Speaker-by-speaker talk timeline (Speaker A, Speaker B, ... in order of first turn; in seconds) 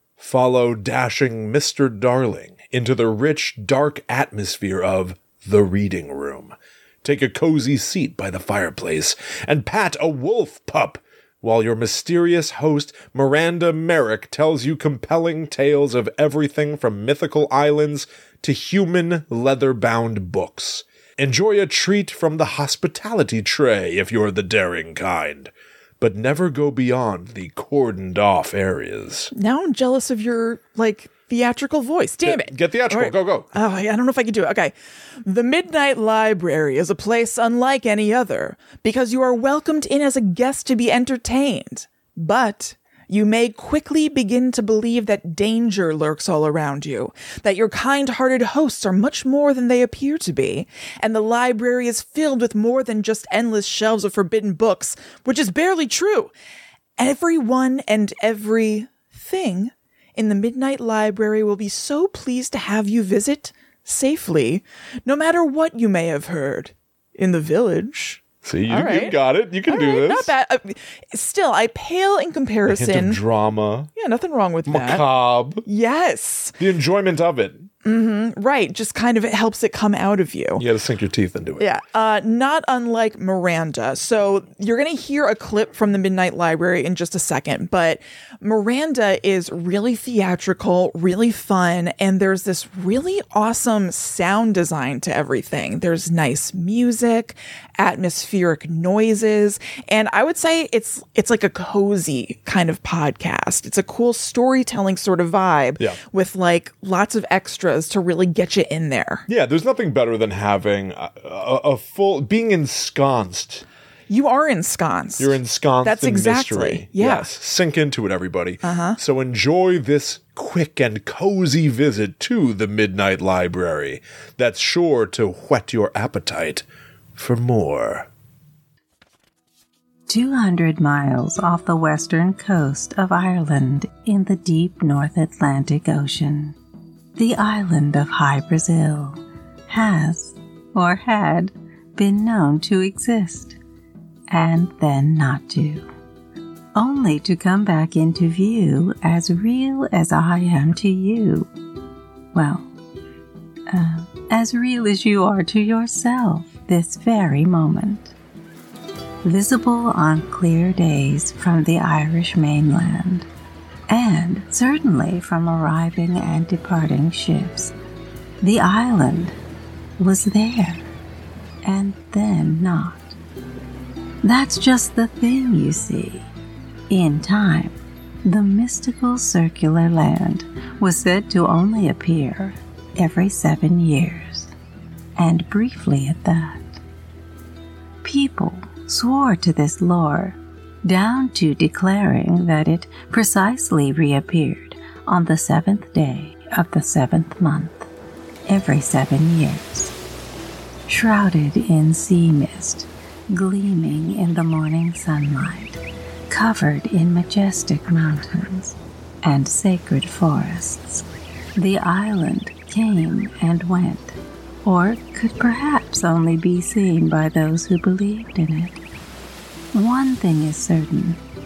Speaker A: 0.2-29.3, 32.2-33.5, 68.4-70.3, 72.7-73.9, 74.7-75.6, 76.6-77.7, 80.6-81.7, 109.3-113.6, 115.2-126.6, 127.2-128.1
Speaker B: 29.3-34.7, 35.2-56.3, 57.0-73.2, 74.0-75.0, 75.6-76.6, 77.8-80.6, 81.6-109.2, 114.1-117.3, 118.6-119.0
Speaker C: 130.1-136.6, 137.2-143.6, 144.3-145.8, 146.8-151.5, 152.3-152.7, 153.7-158.1, 159.2-163.3, 163.9-167.7, 168.4-169.4, 170.0-170.8, 171.6-173.2, 174.2-176.3, 176.9-184.5, 185.2-186.8, 188.0-197.9, 198.5-199.9, 200.9-211.0, 211.6-218.8, 219.7-221.2